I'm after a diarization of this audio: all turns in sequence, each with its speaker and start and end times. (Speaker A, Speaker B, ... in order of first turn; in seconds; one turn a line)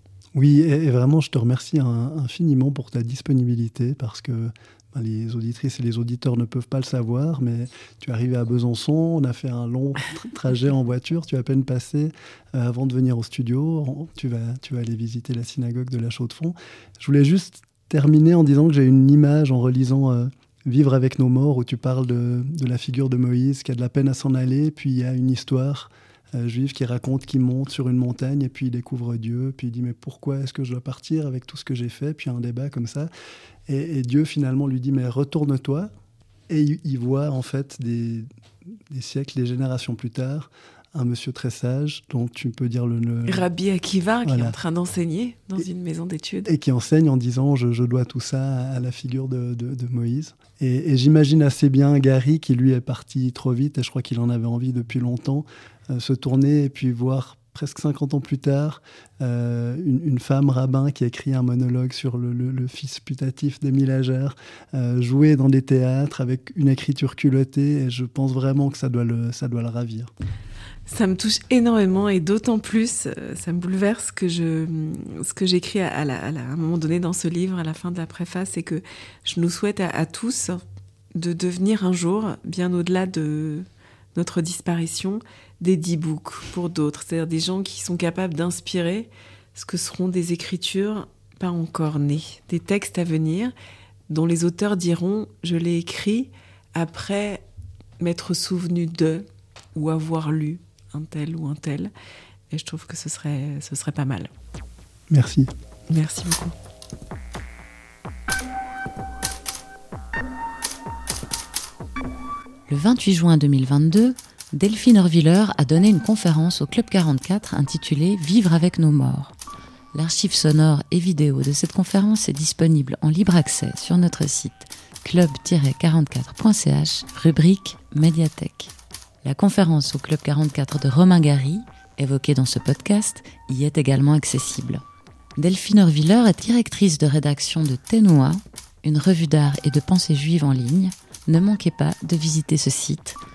Speaker A: 0.3-33.1
Speaker A: 33.7-35.9
Speaker A: 36.5-38.3
Speaker A: 38.9-43.5
Speaker B: 43.2-46.5
Speaker A: 44.2-44.5
Speaker A: 46.5-70.1
Speaker B: 70.9-80.6
Speaker B: 81.1-93.5
Speaker B: 94.1-97.4
Speaker B: 98.0-101.9
Speaker B: 102.5-104.3
Speaker A: 105.1-105.5
Speaker B: 105.9-106.5
Speaker C: 112.7-119.3
Speaker C: 119.9-128.7
Speaker C: 129.2-134.8
Speaker C: 135.4-143.2